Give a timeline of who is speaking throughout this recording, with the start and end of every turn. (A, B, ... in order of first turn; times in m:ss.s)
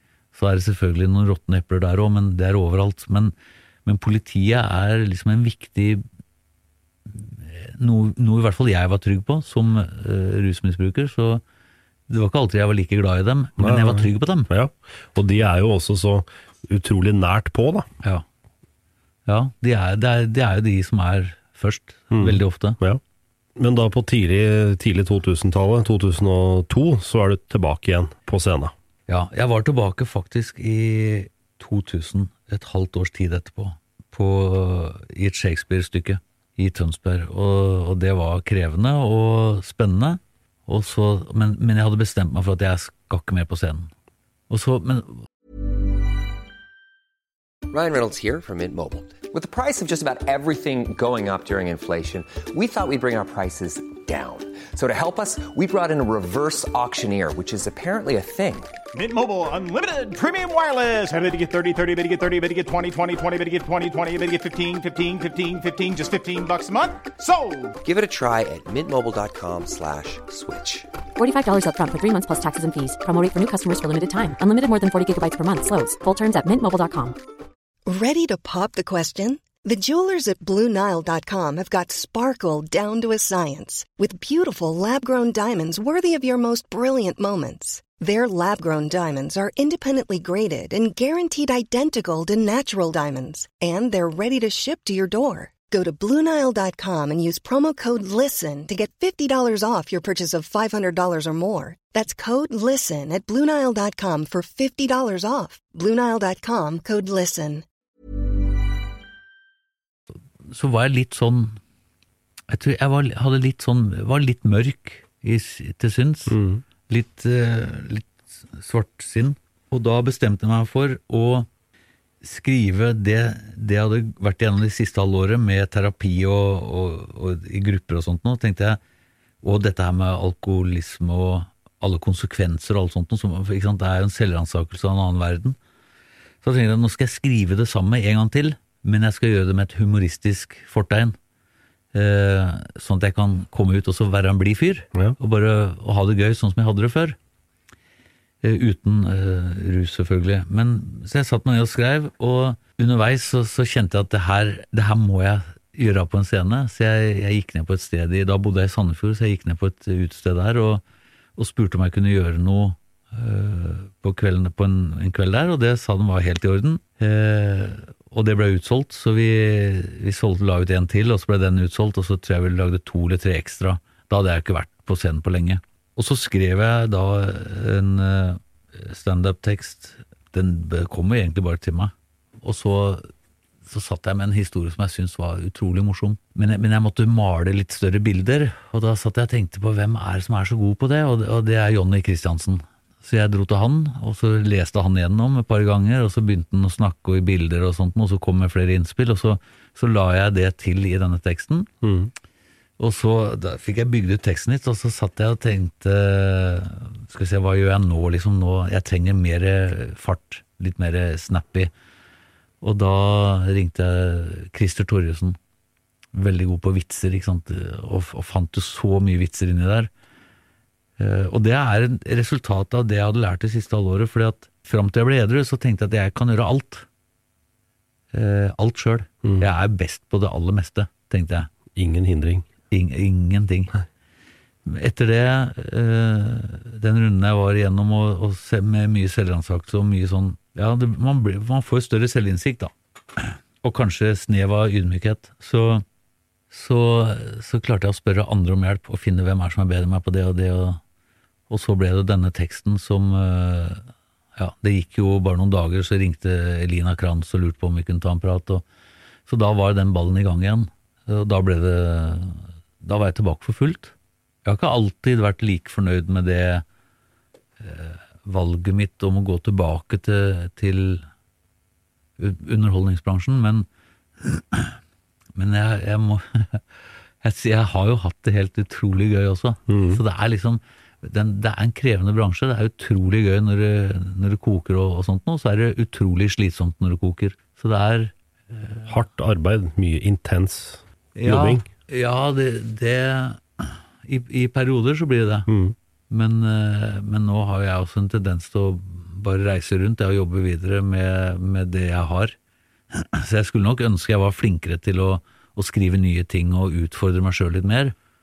0:00.3-0:03.3 A
0:03.8-0:06.0 A
0:07.1-0:11.4 A
0:12.1-0:14.5 A
0:13.6-0:17.9 B
0:19.2-0:22.8 A
0:22.1-0:23.0 B
0:23.6-0:28.7 B
0:29.1-0:43.9 A
0:44.5-0:45.3 A
0:47.7-0:58.7 C
0:58.9-1:07.7 D
1:07.8-1:10.9 C
1:11.2-1:17.2 E
1:17.8-1:47.6 F
1:50.5-1:51.6 A
1:52.5-1:56.4 A
1:56.3-1:56.6 B
1:56.9-2:01.5 A
2:02.2-2:08.8 A
2:09.4-2:15.6 A
2:16.4-2:21.2 A
2:21.9-2:27.2 A
2:28.4-2:40.8 A
2:41.4-3:03.1 A
3:03.7-3:21.7 A
3:21.8-3:22.1 B
3:22.8-3:31.7 A
3:32.6-3:35.4 A
3:36.1-3:39.9 A
3:41.0-3:46.8 A
3:48.1-3:51.5 A
3:51.7-3:52.4 B
3:52.7-3:53.7 A
3:54.6-4:05.8 A
4:06.5-4:10.8 A
4:11.5-4:18.6 A
4:19.2-4:23.9 A
4:24.4-4:26.6 A
4:27.6-4:31.1 A
4:32.2-4:33.7 A
4:34.2-4:34.8 A
4:35.4-4:36.6 A
4:37.2-4:48.9 A
4:39.7-4:40.0 B
4:48.9-4:51.7 B
4:51.1-4:55.5 A
4:55.5-4:55.7 B
4:56.1-5:02.3 A
5:02.9-5:07.9 A